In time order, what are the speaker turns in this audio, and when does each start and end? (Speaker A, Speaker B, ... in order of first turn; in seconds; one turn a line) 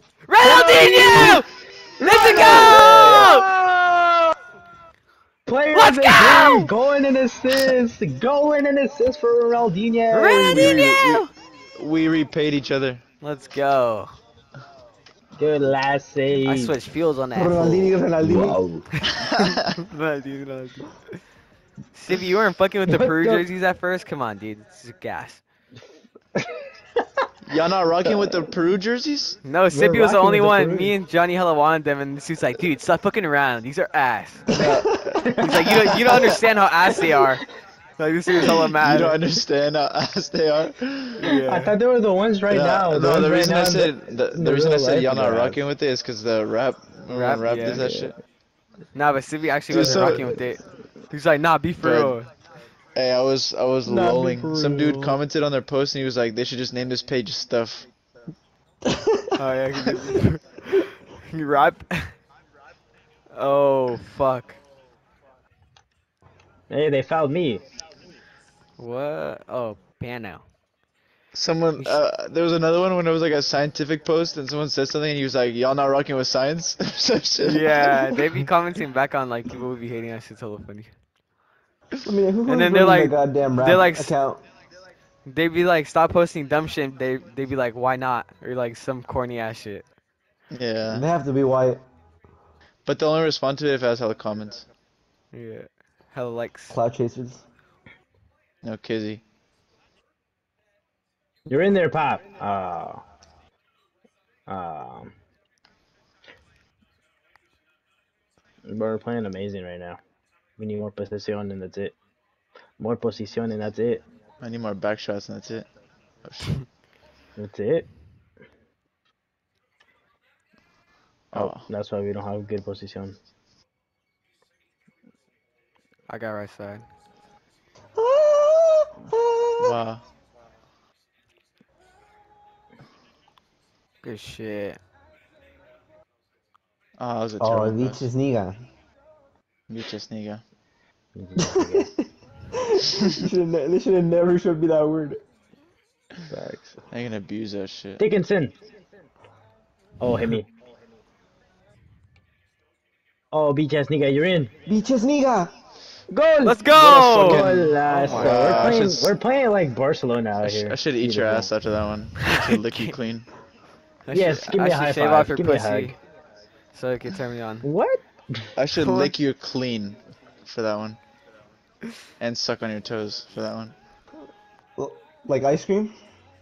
Speaker A: 0.3-1.5
Speaker B: 0.4-1.4
Speaker B: 2.0-4.2
Speaker A: 2.0-3.5
Speaker B: 5.5-10.9
Speaker A: 5.7-6.7
Speaker A: 10.1-11.3
Speaker C: 10.4-11.3
Speaker C: 11.8-13.0
Speaker A: 13.2-14.1
Speaker B: 15.4-16.7
Speaker A: 16.4-18.0
Speaker D: 17.4-18.6
Speaker B: 18.2-18.8
Speaker A: 19.0-21.0
Speaker C: 19.2-19.5
Speaker A: 21.9-25.4
Speaker B: 22.9-23.5
Speaker C: 27.4-29.4
Speaker B: 28.1-28.4
Speaker A: 29.4-34.6
Speaker B: 29.7-30.9
Speaker D: 34.5-35.2
Speaker C: 34.5-35.0
Speaker B: 35.1-36.3
Speaker A: 35.3-37.5
Speaker A: 38.0-39.2
Speaker C: 38.7-41.2
Speaker A: 41.2-41.7
Speaker B: 41.3-45.6
Speaker C: 42.5-48.2
Speaker A: 47.1-47.9
Speaker B: 47.7-48.1
Speaker A: 49.0-52.3
Speaker C: 49.7-50.4
Speaker C: 51.8-52.2
Speaker C: 53.0-57.9
Speaker D: 53.9-55.2
Speaker D: 58.9-59.3
Speaker A: 59.4-62.1
Speaker A: 63.3-64.6
Speaker B: 66.7-67.6
Speaker A: 68.8-70.4
Speaker C: 71.3-78.5
Speaker A: 77.4-80.9
Speaker D: 82.0-84.4
Speaker A: 82.5-84.1
Speaker A: 85.3-89.8
Speaker C: 90.5-91.0
Speaker D: 90.9-91.8
Speaker C: 92.9-94.7
Speaker A: 95.3-96.8
Speaker D: 96.7-97.4
Speaker C: 98.6-99.2
Speaker B: 101.5-103.0
Speaker B: 104.5-105.1
Speaker B: 108.7-110.0
Speaker B: 110.6-112.0
Speaker B: 112.8-114.0
Speaker C: 114.4-115.7
Speaker C: 116.2-116.5
Speaker B: 117.4-117.9
Speaker C: 121.3-121.7
Speaker B: 121.3-123.2
Speaker A: 126.1-126.8
Speaker D: 128.0-129.7
Speaker C: 129.6-130.0
Speaker A: 134.0-134.8
Speaker C: 137.0-138.1
Speaker D: 137.4-138.7
Speaker C: 139.7-140.4
Speaker B: 141.2-141.9
Speaker D: 141.4-142.1
Speaker D: 142.7-145.2
Speaker B: 146.3-146.8
Speaker C: 146.9-148.0
Speaker B: 148.0-148.5
Speaker B: 150.0-150.5
Speaker B: 153.3-154.5
Speaker D: 154.7-155.5
Speaker B: 156.1-161.5
Speaker A: 156.4-158.8
Speaker C: 157.2-157.6
Speaker C: 158.1-159.1
Speaker C: 160.4-163.3
Speaker A: 162.3-162.9
Speaker A: 164.1-165.9
Speaker B: 164.1-166.0
Speaker A: 166.7-167.7
Speaker B: 167.6-168.5
Speaker C: 168.6-171.0
Speaker A: 168.8-169.1
Speaker C: 172.2-173.7
Speaker D: 174.8-175.9